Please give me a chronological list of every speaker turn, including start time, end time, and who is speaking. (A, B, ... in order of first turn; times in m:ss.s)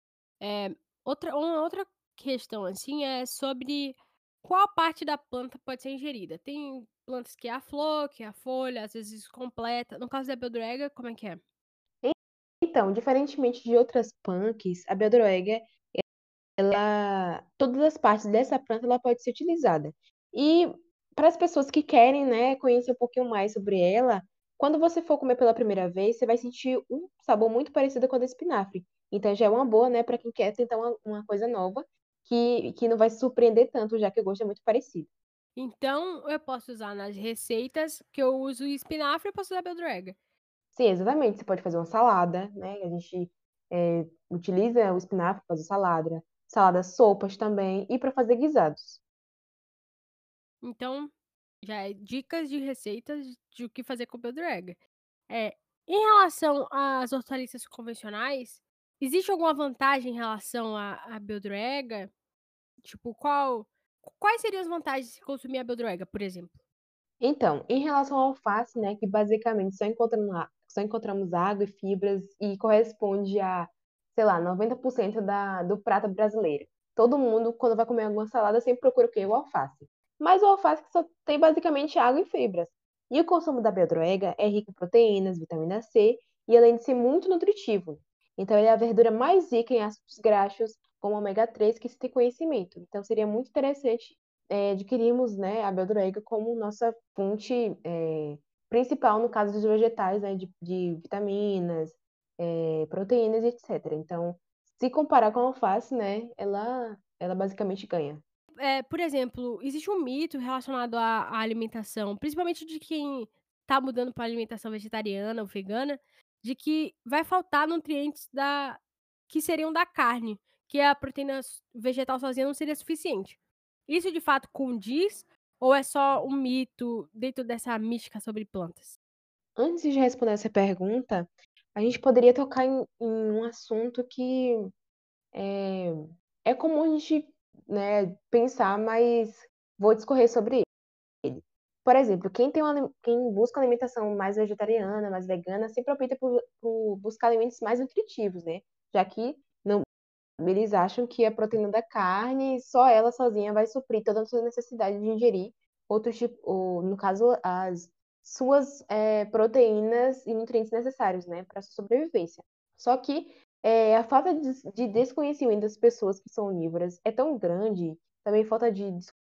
0:00.4-0:11.4 A
0:12.0-0:16.0 B
0:16.6-0:35.1 B
0:35.6-0:40.2 A
0:40.7-0:49.0 B
0:50.6-0:51.1 A
0:51.6-1:02.1 A
1:02.8-1:06.6 A
1:07.2-1:48.2 B
1:48.6-2:09.0 A
2:09.6-2:14.7 B
2:15.3-2:20.7 B
2:21.2-2:29.8 B
2:30.4-2:49.1 B